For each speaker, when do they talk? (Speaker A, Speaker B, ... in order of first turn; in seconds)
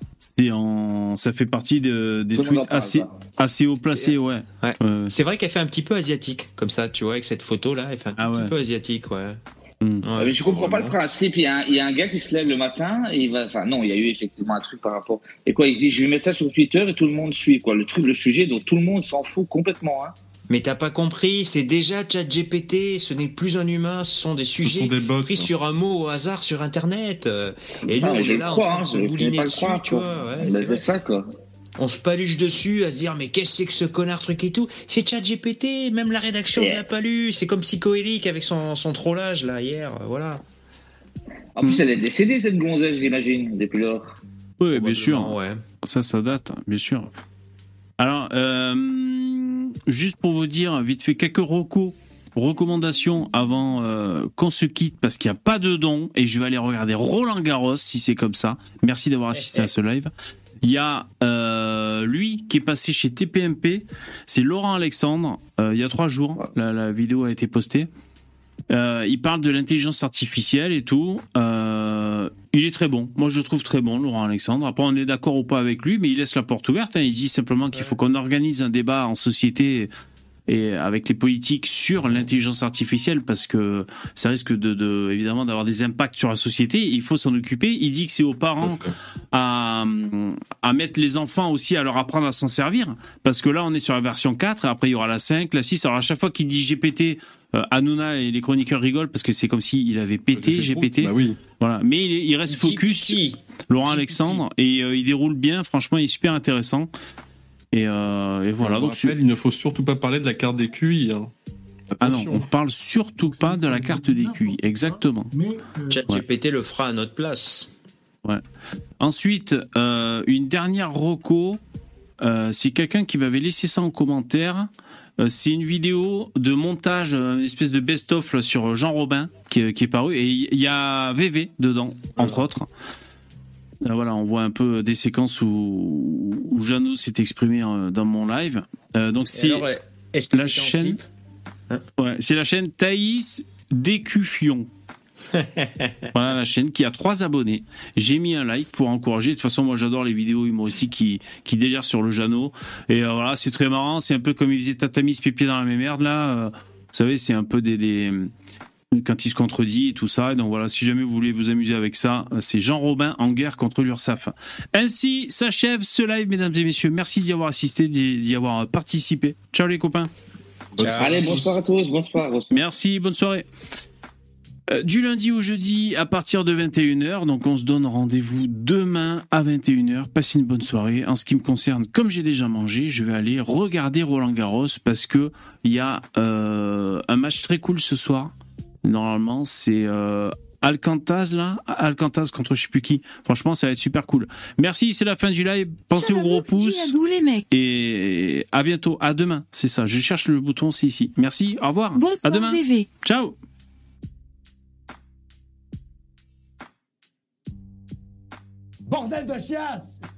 Speaker A: 0.2-5.1, 8.2-8.5, 44.6-47.1, 48.0-60.1, 60.6-67.9, 68.7-79.9, 80.5-88.8, 89.3-106.9, 107.7-109.2, 112.0-115.3, 119.0-121.6, 122.2-132.7, 133.8-139.7, 140.3-141.0, 142.0-144.7, 146.1-158.3, 158.9-170.1, 172.5-173.5, 174.7-188.3, 188.8-196.9, 197.5-203.3
Speaker B: 2.3-3.1, 10.2-20.1, 27.9-31.2, 36.5-36.8, 41.6-44.1, 171.0-172.7
Speaker C: 3.8-9.4, 10.0-10.9, 20.5-30.9, 31.8-40.4, 44.7-45.6, 59.3-59.7, 102.5-104.4, 115.9-117.7, 132.2-132.4, 139.3-141.0, 145.3-146.1, 170.8-171.5
Speaker D: 24.6-25.5, 88.6-88.9, 100.3-101.4, 108.6-111.3, 111.9-112.5, 170.7-171.4
Speaker E: 195.9-197.4, 201.9-202.8